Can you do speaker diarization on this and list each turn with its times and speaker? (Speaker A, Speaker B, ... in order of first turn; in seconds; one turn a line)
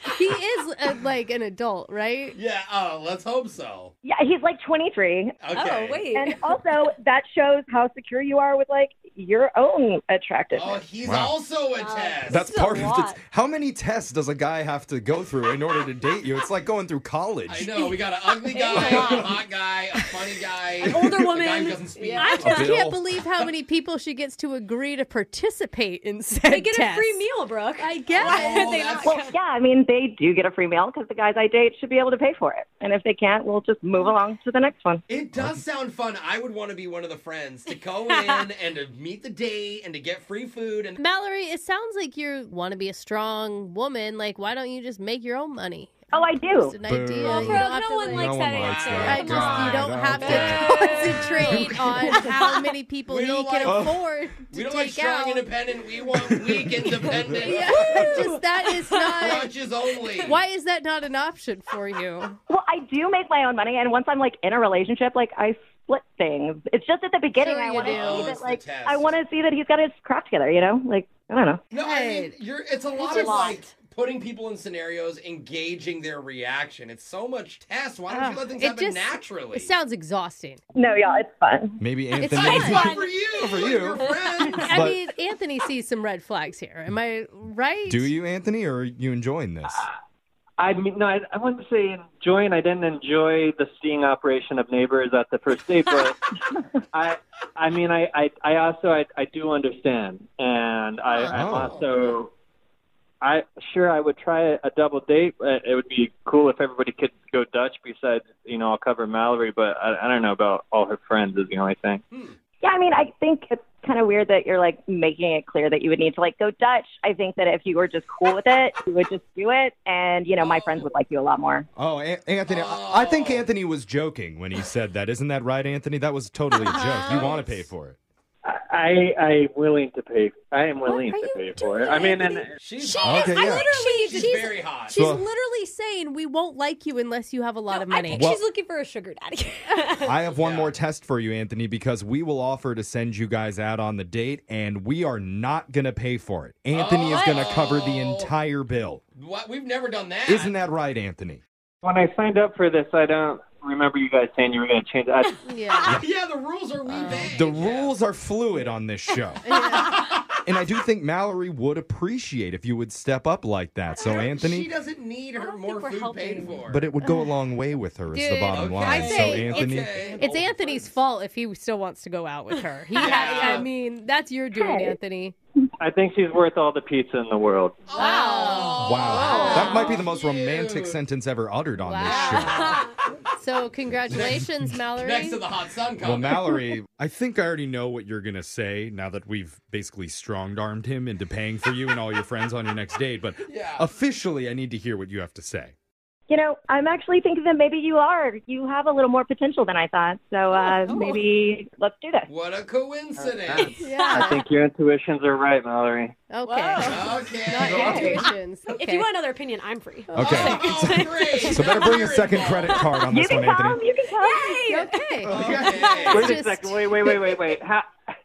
Speaker A: 0.1-2.4
Speaker B: 2.4-3.9
Speaker C: 4.0-5.4
Speaker B: 5.4-6.1
Speaker D: 5.5-6.6
Speaker C: 6.1-10.8
Speaker B: 10.5-12.5
Speaker E: 11.0-11.4
Speaker D: 11.8-13.2
Speaker E: 12.3-17.7
Speaker B: 17.5-22.8
Speaker D: 17.8-19.4
Speaker E: 18.8-19.1
Speaker D: 20.8-22.7
Speaker A: 22.0-27.2
Speaker E: 22.4-23.1
Speaker D: 26.5-29.3
Speaker A: 27.8-28.8
Speaker B: 28.1-29.3
Speaker C: 29.0-35.0
Speaker B: 35.1-41.0
Speaker E: 35.4-35.6
Speaker D: 38.1-38.5
Speaker A: 41.0-46.0
Speaker C: 46.1-46.8
Speaker A: 46.6-55.5
Speaker E: 46.8-52.2
Speaker D: 47.2-52.6
Speaker B: 48.9-49.5
Speaker B: 53.1-53.9
Speaker E: 53.6-54.0
Speaker B: 54.5-58.3
Speaker E: 56.5-57.4
Speaker A: 57.4-59.5
Speaker D: 57.8-58.2
Speaker D: 58.9-59.4
Speaker B: 59.1-60.4
Speaker A: 60.2-62.4
Speaker C: 62.5-71.6
Speaker A: 67.4-68.3
Speaker B: 67.8-69.2
Speaker B: 71.7-79.7
Speaker A: 71.8-72.3
Speaker A: 73.0-73.5
Speaker D: 73.0-73.7
Speaker A: 78.1-80.6
Speaker C: 80.8-81.8
Speaker E: 81.8-84.1
Speaker A: 82.2-82.8
Speaker B: 82.3-84.9
Speaker D: 82.3-84.5
Speaker A: 84.5-88.1
Speaker E: 84.6-85.0
Speaker E: 87.9-89.9
Speaker F: 90.6-96.2
Speaker F: 96.9-102.3
Speaker B: 101.3-102.0
Speaker E: 101.3-101.8
Speaker F: 103.2-112.0
Speaker B: 112.1-112.4
Speaker C: 112.6-121.7
Speaker B: 120.4-120.9
Speaker E: 121.8-128.0
Speaker B: 122.5-123.4
Speaker A: 126.7-127.2
Speaker B: 127.1-127.5
Speaker F: 128.4-132.6
Speaker D: 130.9-131.2
Speaker A: 131.0-131.9
Speaker D: 131.7-134.6
Speaker B: 132.6-135.0
Speaker E: 133.0-133.7
Speaker A: 133.4-138.3
Speaker E: 134.9-135.3
Speaker D: 137.7-140.2
Speaker E: 138.1-138.4
Speaker E: 140.0-149.0
Speaker B: 140.4-140.7
Speaker B: 146.7-148.3
Speaker D: 147.0-147.7
Speaker B: 149.2-150.5
Speaker E: 150.3-151.4
Speaker F: 151.8-155.4
Speaker A: 155.4-156.0
Speaker B: 155.9-157.9
Speaker A: 156.9-157.3
Speaker E: 157.3-159.4
Speaker A: 159.4-160.0
Speaker B: 159.7-160.3
Speaker E: 160.4-164.7
Speaker D: 164.0-164.2
Speaker B: 164.0-166.8
Speaker D: 165.4-166.6
Speaker E: 166.7-170.2
Speaker A: 168.1-175.3
Speaker B: 168.5-170.9
Speaker B: 172.9-173.7
Speaker D: 173.0-173.5
Speaker C: 174.6-174.9
Speaker F: 175.8-177.9
Speaker B: 177.9-181.0
Speaker A: 177.9-179.9
Speaker D: 178.0-179.8
Speaker E: 178.8-182.8
Speaker A: 181.8-185.4
Speaker B: 182.1-182.5
Speaker E: 184.1-184.4
Speaker B: 184.1-186.6
Speaker E: 186.0-195.8
Speaker B: 193.5-193.9
Speaker C: 196.3-202.3
Speaker D: 200.5-201.2
Speaker B: 202.3-203.8
Speaker F: 203.2-206.2
Speaker D: 203.6-204.3
Speaker A: 203.8-204.4
Speaker A: 206.3-209.1
Speaker D: 206.5-208.2
Speaker B: 206.8-208.3
Speaker D: 208.8-213.1
Speaker A: 210.1-210.6
Speaker E: 210.1-213.8
Speaker B: 210.2-212.8
Speaker C: 213.1-214.6
Speaker D: 214.2-216.3
Speaker A: 214.7-215.4
Speaker E: 215.2-215.9
Speaker B: 215.3-216.4
Speaker A: 216.0-216.9
Speaker F: 216.1-217.9